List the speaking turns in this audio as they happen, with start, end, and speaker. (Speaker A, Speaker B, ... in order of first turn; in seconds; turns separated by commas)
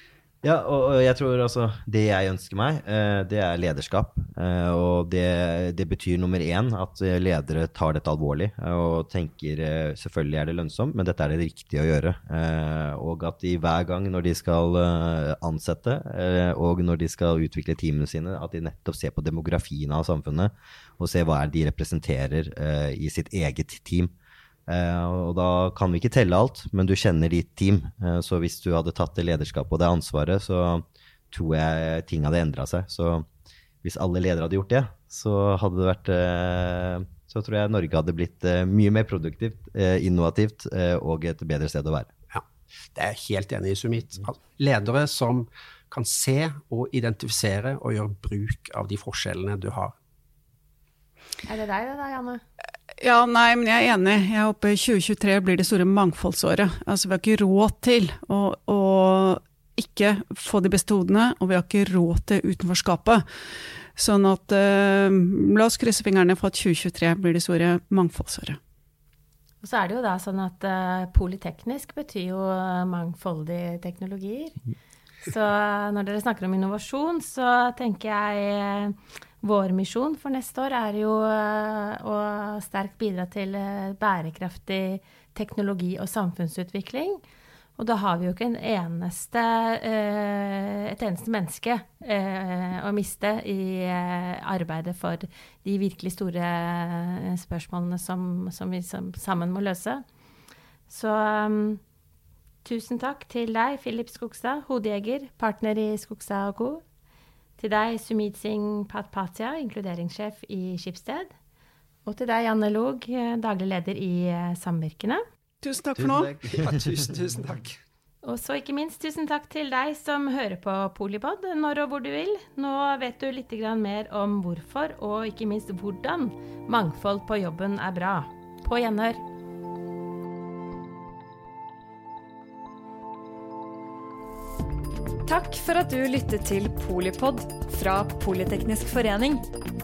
Speaker A: 0.4-24.1, Speaker A: 24.7-33.2, Speaker A: 33.8-42.1, Speaker B: 42.9-49.9, Speaker C: 51.4-52.4, Speaker D: 53.0-63.2, Speaker D: 64.0-68.6, Speaker C: 69.6-74.6, Speaker C: 75.2-87.2, Speaker C: 87.8-100.0, Speaker C: 100.9-101.8, Speaker C: 102.6-106.8, Speaker C: 107.6-111.3, Speaker C: 112.0-115.2, Speaker D: 115.6-116.3, Speaker B: 116.4-117.8, Speaker C: 118.2-129.2, Speaker E: 135.3-139.4